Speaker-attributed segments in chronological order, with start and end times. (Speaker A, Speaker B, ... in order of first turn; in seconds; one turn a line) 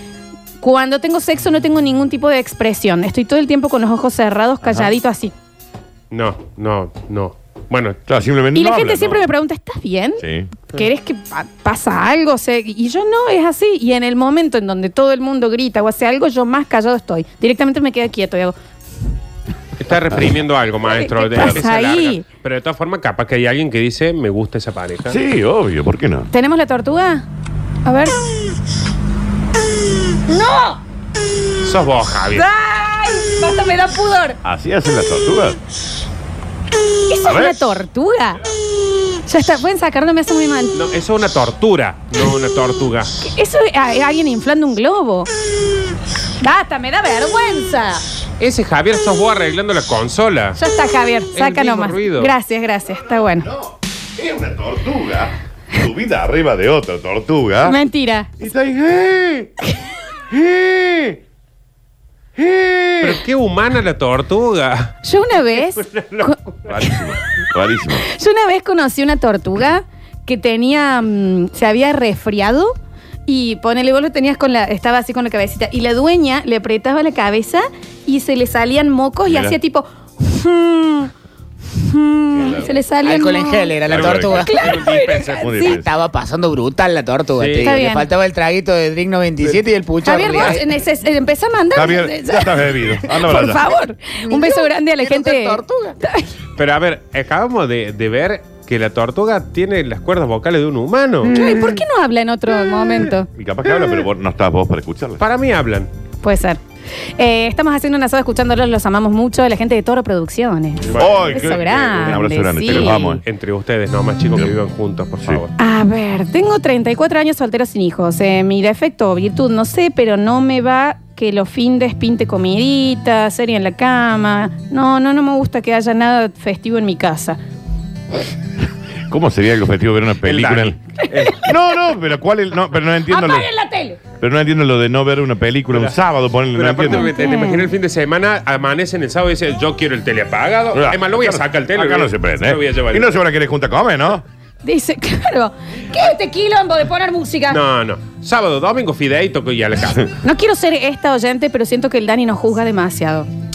Speaker A: 0.6-5.3
Speaker B: 4.6-4.9
Speaker C: 6.1-8.0
Speaker B: 8.1-9.3
Speaker A: 8.5-18.6
Speaker B: 10.2-10.6
Speaker C: 19.8-25.2
Speaker A: 20.9-22.2
Speaker B: 21.4-21.6
Speaker B: 25.1-26.3
Speaker A: 26.3-27.2
Speaker A: 27.9-28.1
Speaker A: 30.3-30.8
Speaker C: 31.6-32.5
Speaker A: 32.3-34.4
Speaker B: 34.4-35.6
Speaker A: 37.1-38.4
Speaker B: 37.2-37.6
Speaker A: 39.2-40.8
Speaker C: 40.7-43.2
Speaker A: 43.2-45.3
Speaker A: 46.4-48.0
Speaker C: 48.4-50.6
Speaker A: 50.6-53.5
Speaker C: 51.3-52.3
Speaker B: 53.4-57.8
Speaker A: 57.6-58.3
Speaker B: 58.4-59.5
Speaker B: 60.3-61.2
Speaker B: 62.4-63.2
Speaker C: 63.0-64.9
Speaker A: 65.0-67.1
Speaker C: 65.5-66.3
Speaker B: 66.7-68.1
Speaker A: 68.0-72.7
Speaker A: 73.3-81.1
Speaker B: 79.3-79.6
Speaker A: 81.7-85.8
Speaker B: 82.3-82.9
Speaker D: 83.1-84.5
Speaker B: 83.8-84.5
Speaker C: 84.0-85.8
Speaker B: 85.3-86.0
Speaker D: 85.9-90.6
Speaker C: 87.3-87.8
Speaker A: 87.6-88.1
Speaker A: 90.0-92.6
Speaker B: 91.8-93.7
Speaker A: 93.2-96.3
Speaker D: 95.1-96.0
Speaker C: 96.6-101.4
Speaker A: 101.3-103.3
Speaker B: 103.3-105.2
Speaker C: 105.2-105.9
Speaker A: 106.2-106.6
Speaker A: 107.2-113.0
Speaker C: 110.9-115.5
Speaker B: 111.0-113.2
Speaker A: 115.6-127.4
Speaker B: 129.1-130.8
Speaker C: 130.2-131.5
Speaker B: 131.4-133.5
Speaker A: 133.1-134.0
Speaker B: 134.1-137.2
Speaker C: 136.5-143.2
Speaker A: 136.9-137.7
Speaker B: 140.7-144.2
Speaker A: 144.6-147.6
Speaker C: 147.5-150.1
Speaker A: 150.2-153.3